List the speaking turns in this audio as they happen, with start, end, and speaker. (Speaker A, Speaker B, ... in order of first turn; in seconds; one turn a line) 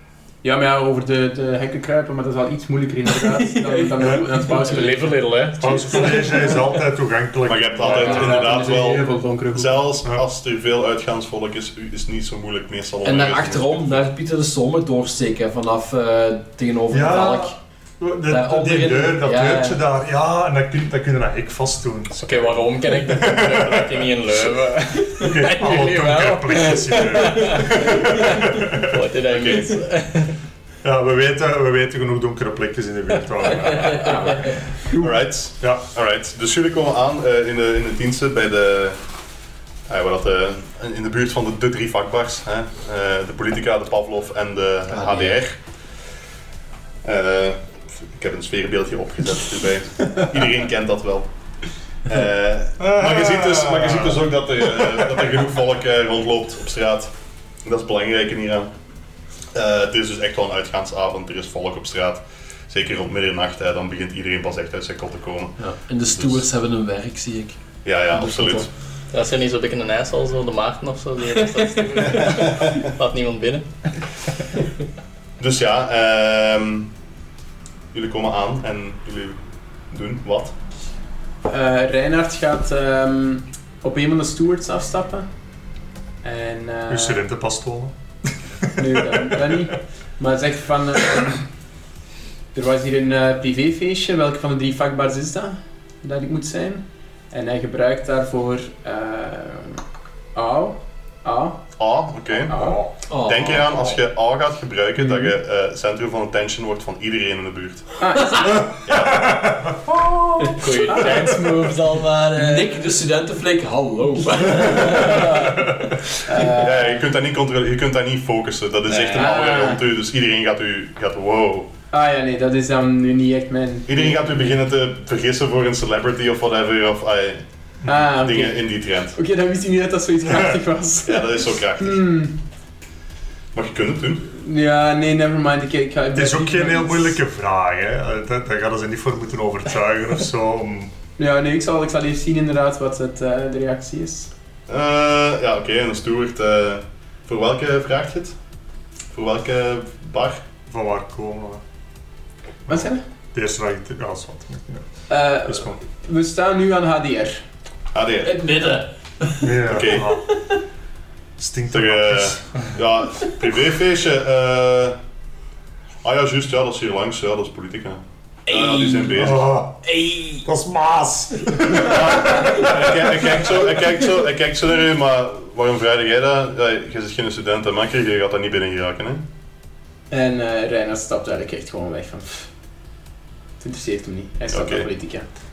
Speaker A: 0.4-5.7
Speaker B: 3.4-4.0
Speaker C: 4.0-4.2
Speaker D: 4.5-6.2
Speaker C: 5.6-8.5
Speaker E: 7.4-14.0
Speaker A: 7.8-9.9
Speaker B: 13.0-17.6
Speaker C: 16.9-24.1
Speaker B: 18.2-19.8
Speaker D: 22.2-30.3
Speaker C: 25.2-28.9
Speaker E: 29.3-29.8
Speaker C: 30.8-34.6
Speaker D: 33.7-34.1
Speaker A: 34.0-35.1
Speaker E: 35.0-39.0
Speaker E: 39.9-45.6
Speaker B: 44.9-45.4
Speaker E: 47.0-51.3
Speaker E: 52.0-57.1
Speaker C: 52.8-55.2
Speaker E: 57.6-58.7
Speaker E: 59.5-65.6
Speaker B: 65.6-67.6
Speaker E: 66.1-66.3
Speaker E: 67.8-68.7
Speaker B: 68.1-68.7
Speaker D: 69.1-73.9
Speaker E: 72.2-72.8
Speaker E: 75.4-76.9
Speaker E: 77.9-79.4
Speaker E: 79.9-80.5
Speaker A: 81.4-85.3
Speaker A: 86.2-87.2
Speaker C: 86.9-89.6
Speaker A: 88.7-91.5
Speaker A: 92.5-99.8
Speaker A: 100.3-101.7
Speaker E: 101.8-102.6
Speaker A: 102.5-102.9
Speaker B: 103.1-104.0
Speaker E: 103.1-107.9
Speaker A: 108.0-108.8
Speaker E: 108.8-109.3
Speaker C: 108.9-110.6
Speaker D: 110.6-113.0
Speaker B: 112.3-115.5
Speaker D: 114.8-115.5
Speaker A: 116.2-116.9
Speaker E: 116.3-121.7
Speaker D: 118.9-119.4
Speaker A: 119.1-119.8
Speaker A: 121.9-124.5
Speaker E: 123.8-129.2
Speaker A: 127.8-132.3
Speaker E: 131.0-132.2
Speaker E: 133.5-134.3
Speaker A: 134.2-137.1
Speaker C: 136.1-140.9
Speaker A: 141.2-144.3
Speaker E: 144.7-148.3
Speaker E: 149.1-150.4
Speaker C: 150.7-151.6
Speaker A: 152.7-153.0
Speaker C: 153.3-154.9
Speaker A: 155.1-157.4
Speaker C: 155.4-155.8
Speaker E: 157.9-158.4
Speaker B: 158.2-159.6
Speaker C: 159.4-160.2
Speaker E: 159.6-160.1
Speaker C: 161.4-162.7
Speaker E: 161.7-165.0
Speaker E: 166.0-169.6
Speaker B: 168.5-169.3
Speaker C: 169.1-173.0
Speaker B: 169.8-170.4
Speaker E: 171.7-179.2
Speaker A: 180.1-182.5
Speaker A: 183.6-185.2
Speaker E: 184.5-184.9